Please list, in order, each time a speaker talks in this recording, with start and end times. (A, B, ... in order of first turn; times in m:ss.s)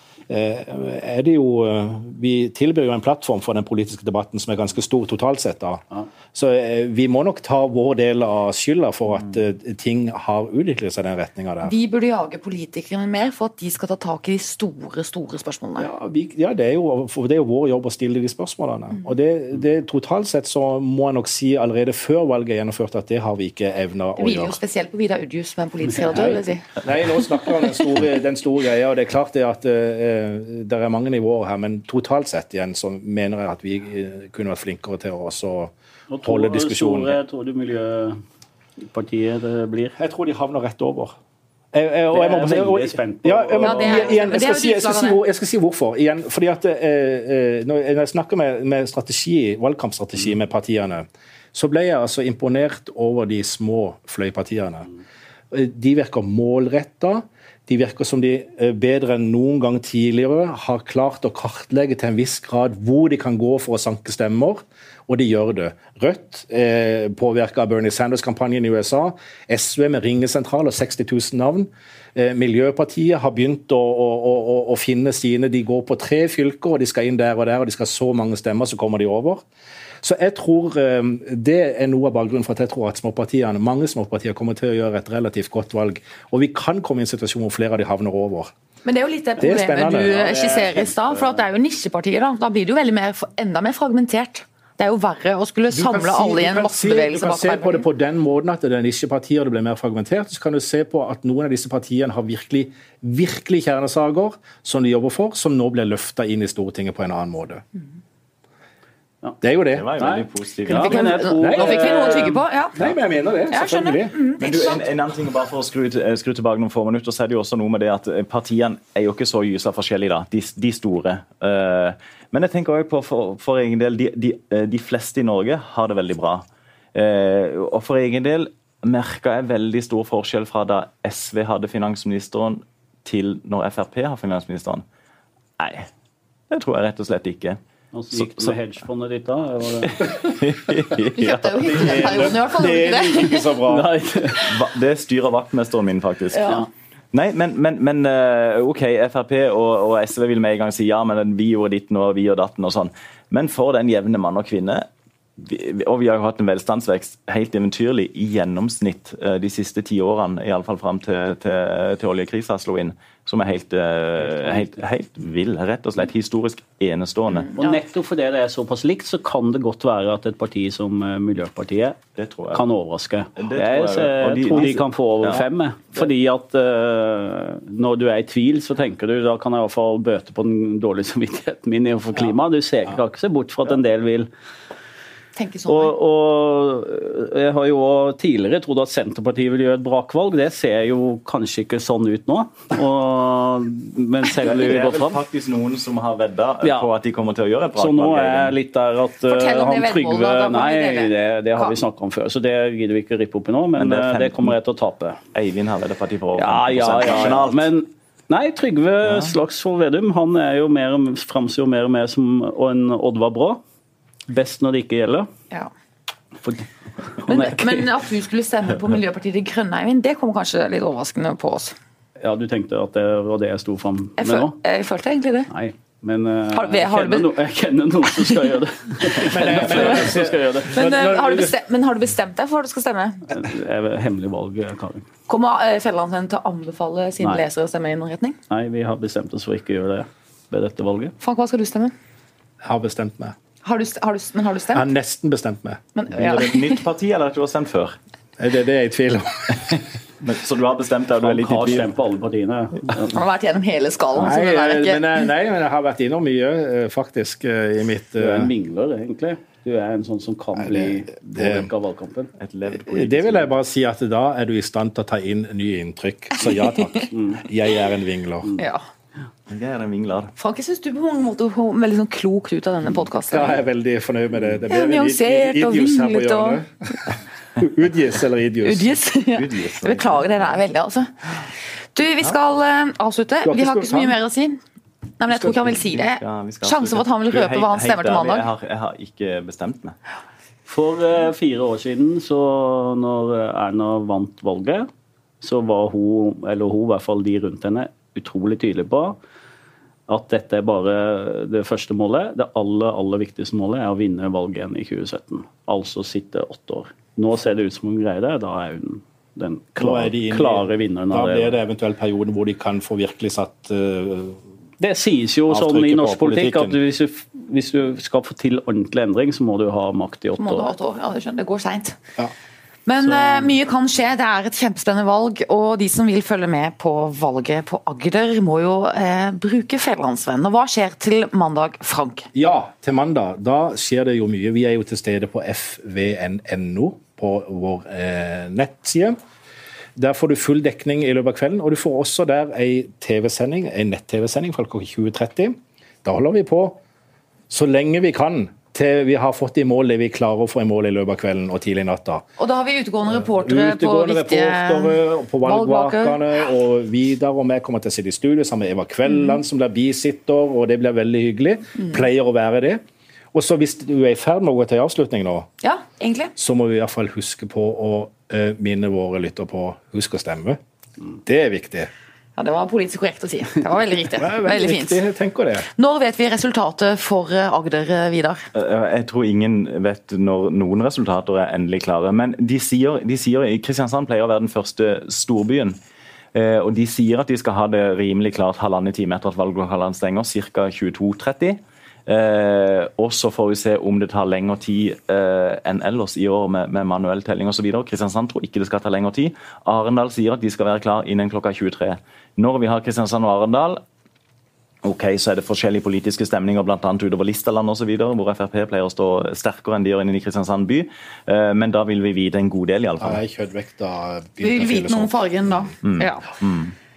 0:00.3-0:05.8 A
0:06.3-0:11.7 A
0:11.6-0:15.9 B
0:15.8-0:24.6 A
0:24.2-0:26.6 B
0:26.2-0:35.7 A
0:36.1-0:38.2 C
0:36.2-0:37.2 A
0:38.8-0:40.0 C
0:40.0-0:41.2 A
0:41.7-0:54.9 A
0:42.1-0:44.2 C
0:43.6-0:45.2 B
0:55.5-1:19.4 A
1:20.0-1:28.5 A
1:28.8-1:37.8 B
1:29.4-1:30.2 A
1:29.8-1:31.4 C
1:35.7-1:47.6 A
1:49.4-1:49.9 A
1:49.7-1:51.1 D
1:50.0-1:52.4 C
1:50.7-1:52.8 B
1:51.4-1:54.2 A
1:53.5-1:54.8 B
1:54.4-2:14.8 D
2:15.6-2:15.9 D
2:16.5-2:17.6 D
2:17.9-2:20.0 C
2:18.1-2:18.6 D
2:19.8-2:22.1 D
2:21.1-2:23.5 B
2:21.6-2:23.9 A
2:23.6-2:24.5 C
2:24.4-2:47.5 D
2:26.3-2:26.6 B
2:44.2-2:44.7 C
2:47.5-2:47.8 B
2:47.6-2:52.0 C
2:52.2-2:52.6 D
2:52.5-3:04.3 C
2:53.4-2:55.4 D
3:05.4-3:05.9 B
3:05.7-3:15.2 C
3:14.4-3:18.5 D
3:16.6-3:16.9 C
3:17.8-3:25.2 C
3:19.3-3:21.8 B
3:23.8-3:24.6 D
3:25.3-3:27.7 D
3:26.4-3:33.6 C
3:29.0-3:29.3 D
3:34.3-3:35.3 C
3:36.4-3:37.9 C
3:37.3-3:41.8 B
3:42.2-3:44.5 C
3:44.2-3:45.5 B
3:45.5-3:50.7 C
3:46.5-3:47.3 B
3:49.2-3:49.9 B
3:49.2-3:51.5 A
3:50.7-3:53.3 B
3:53.3-3:55.1 C
3:55.3-3:58.4 B
3:58.5-4:01.1 C
4:01.2-4:01.9 B
4:02.6-4:03.3 A
4:03.6-4:04.8 B
4:04.7-4:05.8 A
4:05.9-4:06.8 B
4:06.1-4:08.0 D
4:08.4-4:09.8 A
4:09.7-4:11.9 D
4:11.2-4:13.1 C
4:13.1-4:15.2 B
4:14.2-4:18.5 A
4:18.2-4:22.3 C
4:20.6-4:21.7 A
4:22.4-4:23.5 D
4:22.7-4:28.5 A
4:26.8-4:27.1 B
4:27.1-4:27.4 C
4:28.6-4:28.8 B
4:29.5-4:30.3 D
4:30.4-4:33.6 B
4:33.3-4:36.7 A
4:34.7-4:37.0 B
4:37.6-4:39.0 A
4:38.6-4:41.1 B
4:39.3-4:40.4 D
4:41.9-4:44.6 B
4:43.4-4:44.2 A
4:45.2-4:48.5 B
4:45.4-4:50.0 D
4:50.7-4:54.9 C
4:55.4-4:59.2 C
5:00.1-5:11.6 C
5:09.8-5:14.4 A
5:14.8-5:20.7 C
5:15.5-5:16.8 A
5:20.4-5:22.0 B
5:22.8-5:32.3 B
5:32.3-5:39.2 A
5:40.0-5:46.8 A
5:47.5-5:52.2 A
5:52.4-5:56.2 B
5:53.1-6:02.8 A
5:59.1-5:59.3 B
6:03.3-6:05.5 A
6:05.6-6:06.3 B
6:06.4-6:10.6 A
6:11.2-6:11.9 A
6:12.4-6:15.0 B
6:14.2-6:15.7 A
6:15.8-6:18.5 B
6:18.5-6:25.8 D
6:26.3-6:43.8 D
6:44.8-6:53.2 D
6:53.0-6:55.7 A
6:54.4-6:56.3 B
6:55.8-6:56.7 D